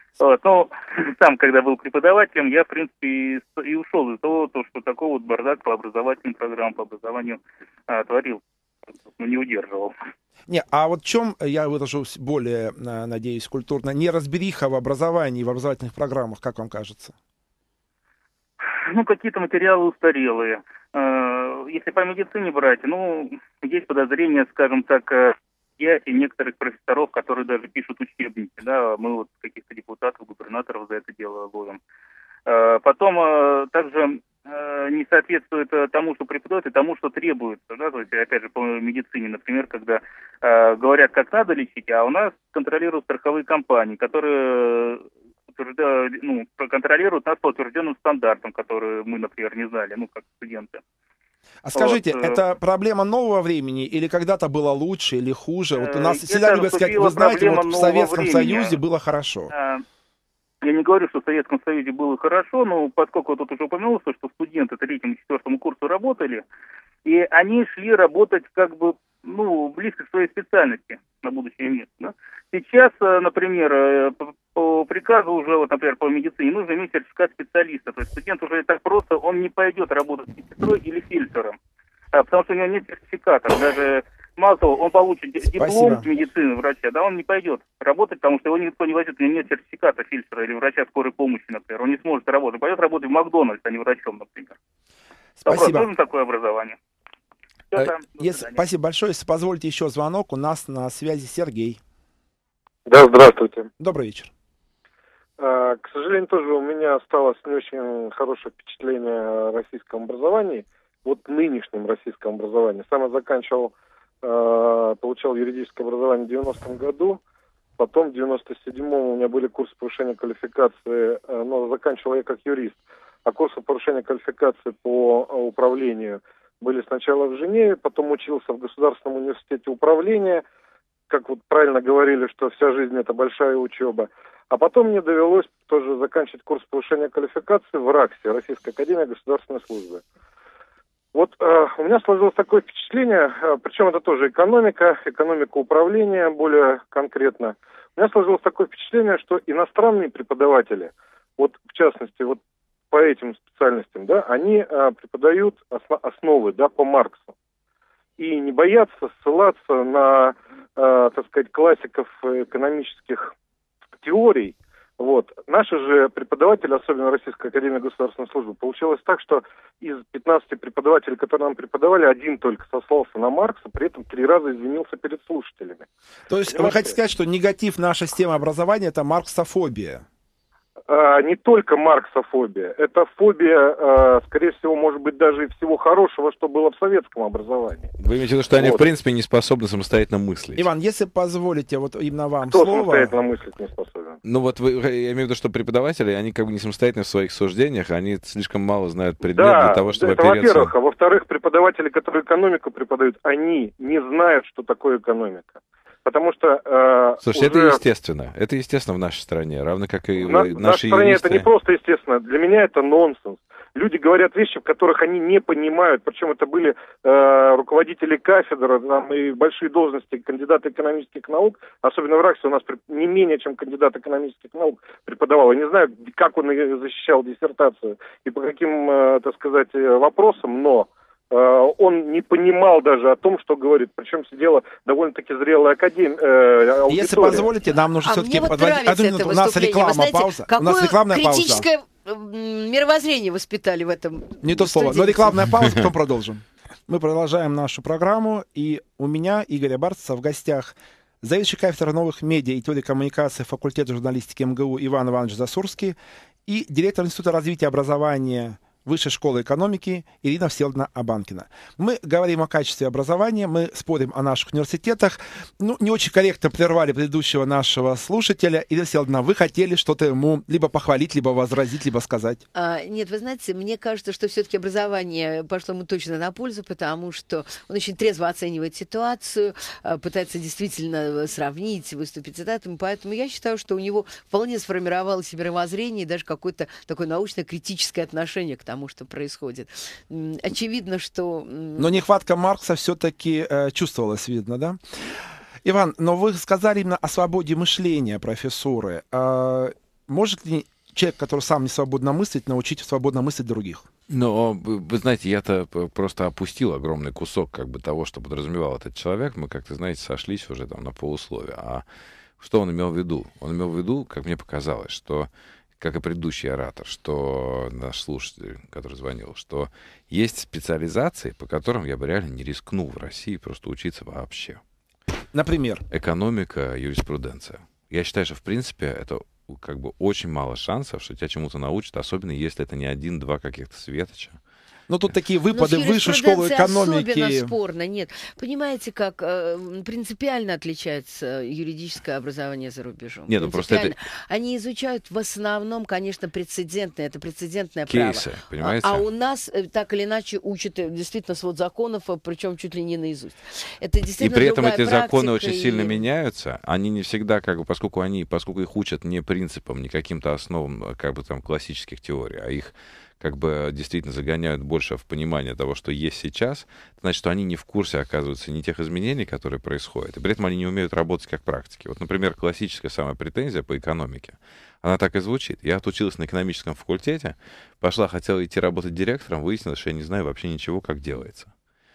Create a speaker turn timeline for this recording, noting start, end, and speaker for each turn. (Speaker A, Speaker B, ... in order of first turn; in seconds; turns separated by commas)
Speaker A: 0.2-8.4, Speaker A: 9.1-9.9, Speaker B: 10.5-17.1, Speaker A: 18.9-31.8, Speaker A: 32.5-50.8, Speaker B: 51.6-59.5, Speaker A: 51.8-52.4, Speaker A: 55.8-58.8, Speaker A: 59.5-59.8, Speaker A: 60.6-66.5, Speaker A: 67.1-81.6, Speaker A: 82.1-94.5, Speaker B: 85.5-86.1, Speaker B: 95.4-95.9, Speaker A: 95.5-96.8, Speaker A: 97.7-98.6, Speaker B: 97.7-101.8, Speaker C: 102.9-103.7, Speaker B: 103.8-104.3, Speaker C: 105.4-117.2, Speaker C: 117.8-130.4, Speaker C: 131.1-140.0, Speaker C: 141.1-152.4, Speaker C: 152.9-157.3, Speaker C: 158.2-163.3, Speaker C: 164.0-175.9, Speaker B: 176.3-180.0, Speaker C: 176.5-177.0, Speaker C: 180.9-187.9, Speaker D: 188.0-190.7, Speaker B: 190.6-193.1, Speaker C: 192.5-194.2, Speaker D: 194.2-200.7, Speaker C: 199.3-207.8, Speaker D: 207.2-211.5, Speaker C: 210.2-237.5, Speaker B: 236.9-241.7, Speaker E: 238.0-245.5, Speaker B: 244.4-256.0, Speaker B: 256.5-272.4, Speaker E: 272.5-291.9, Speaker B: 291.8-294.8, Speaker B: 295.6-303.9, Speaker D: 304.1-311.9, Speaker D: 312.4-324.6, Speaker B: 325.3-325.8, Speaker D: 325.9-334.4, Speaker B: 334.9-337.5, Speaker E: 335.5-356.0, Speaker D: 343.3-344.0, Speaker D: 347.9-349.1, Speaker D: 354.2-381.5